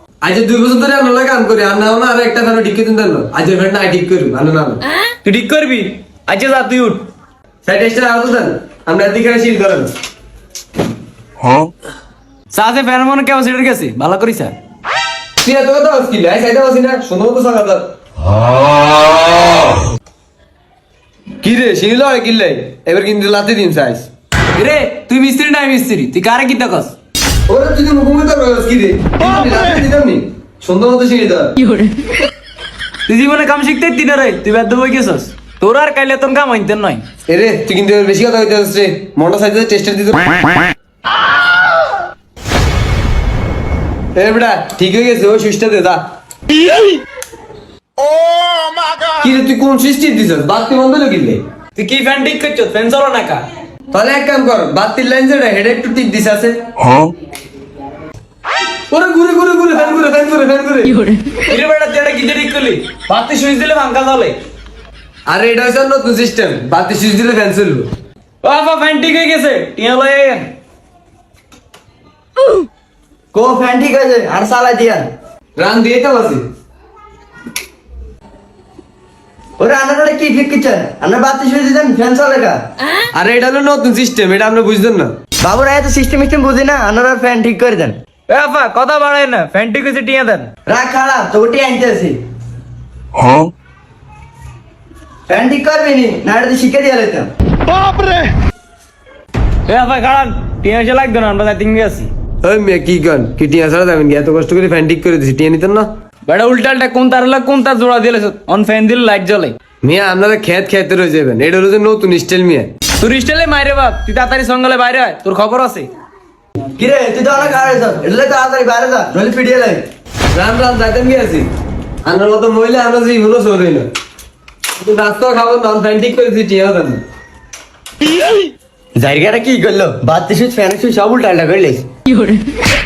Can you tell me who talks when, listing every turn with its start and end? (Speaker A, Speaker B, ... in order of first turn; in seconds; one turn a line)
Speaker A: 0.2-4.8
Speaker B: 5.2-7.0
Speaker A: 7.7-9.9
Speaker B: 12.5-14.6
Speaker A: 15.4-17.9
Speaker A: 21.4-24.1
Speaker B: 24.6-26.9
Speaker A: 27.5-31.6
Speaker B: 33.1-37.0
Speaker A: 37.3-40.4
Speaker A: 44.1-46.0
Speaker A: 49.2-51.4
Speaker B: 51.8-53.4
Speaker A: 53.9-56.7
Speaker A: 58.9-61.1
Speaker B: 61.3-64.4
Speaker A: 65.3-67.9
Speaker B: 68.4-70.5
Speaker C: 73.3-75.1
Speaker A: 75.6-76.5
Speaker C: 79.6-82.6
Speaker A: 83.1-85.1
Speaker C: 85.4-88.0
Speaker B: 88.3-90.5
Speaker C: 90.7-92.2
Speaker C: 95.3-97.3
Speaker B: 99.7-102.1
Speaker A: 102.4-105.9
Speaker B: 106.3-109.6
Speaker A: 109.8-112.7
Speaker B: 113.0-115.9
Speaker C: 116.8-119.8
Speaker A: 120.3-121.5
Speaker A: 122.0-123.9
Speaker A: 124.8-127.0
Speaker C: 129.0-131.8